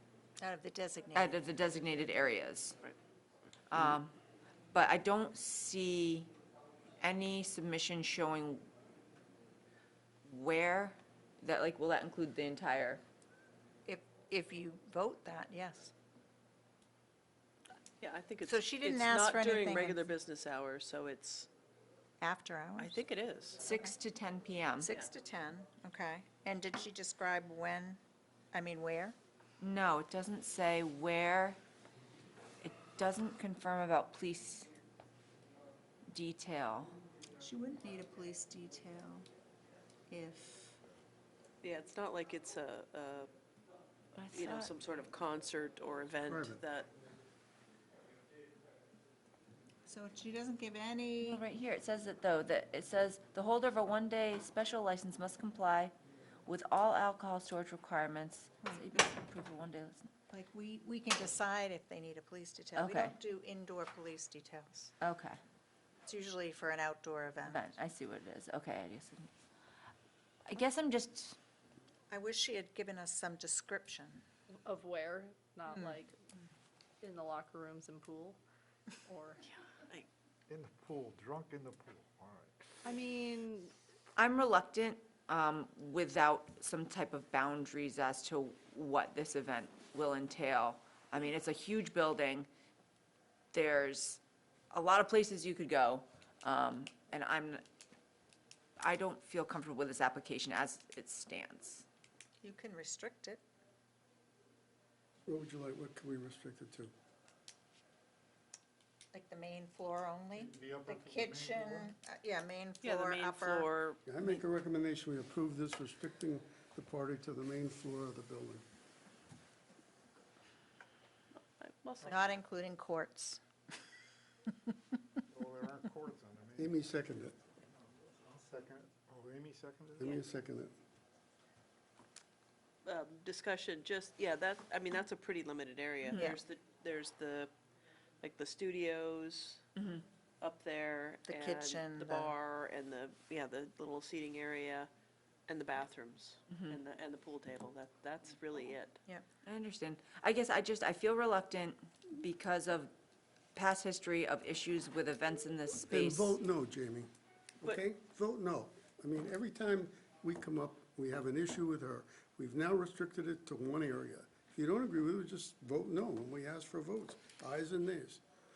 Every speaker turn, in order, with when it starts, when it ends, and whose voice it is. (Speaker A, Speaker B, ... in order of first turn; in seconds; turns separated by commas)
Speaker A: 0.4-1.3, Speaker B: 1.1-2.8, Speaker B: 3.7-4.1, Speaker B: 4.7-6.3, Speaker B: 7.0-8.7, Speaker B: 10.2-13.0, Speaker A: 13.8-15.9, Speaker C: 18.0-21.5, Speaker A: 18.5-20.0, Speaker A: 22.2-23.0, Speaker C: 22.8-23.6, Speaker B: 23.6-24.9, Speaker A: 23.6-23.9, Speaker A: 24.8-28.0, Speaker A: 28.5-29.1, Speaker B: 29.6-31.6, Speaker B: 32.6-34.7, Speaker B: 36.1-36.9, Speaker A: 37.4-39.2, Speaker A: 40.1-40.8, Speaker C: 41.6-43.3, Speaker B: 44.1-44.7, Speaker C: 44.2-46.9, Speaker D: 46.3-46.6, Speaker A: 49.9-51.4, Speaker B: 51.2-55.9, Speaker B: 56.5-60.1, Speaker A: 60.3-64.9, Speaker B: 62.8-63.1, Speaker B: 65.0-65.4, Speaker A: 66.0-67.7, Speaker B: 67.4-69.3, Speaker B: 70.5-71.4, Speaker A: 72.1-74.2, Speaker E: 74.6-76.2, Speaker E: 77.0-78.4, Speaker E: 79.0-79.4, Speaker F: 80.5-82.8, Speaker E: 82.8-83.7, Speaker B: 84.2-92.5, Speaker B: 93.5-97.6, Speaker B: 98.8-101.8, Speaker A: 102.4-103.4, Speaker D: 105.3-106.9, Speaker A: 109.1-113.7, Speaker F: 110.3-111.9, Speaker C: 112.8-114.4, Speaker D: 114.0-118.6, Speaker C: 121.6-122.4, Speaker A: 122.0-123.4, Speaker F: 125.3-126.8, Speaker D: 126.6-127.3, Speaker F: 127.6-130.1, Speaker D: 130.0-130.7, Speaker C: 132.8-137.5, Speaker A: 136.1-136.4, Speaker C: 138.2-139.6, Speaker B: 139.8-140.0, Speaker C: 140.4-144.9, Speaker A: 141.3-142.3, Speaker C: 145.5-149.0, Speaker B: 146.5-146.8, Speaker B: 149.4-152.9, Speaker B: 153.5-156.3, Speaker D: 155.9-157.1, Speaker D: 157.6-168.2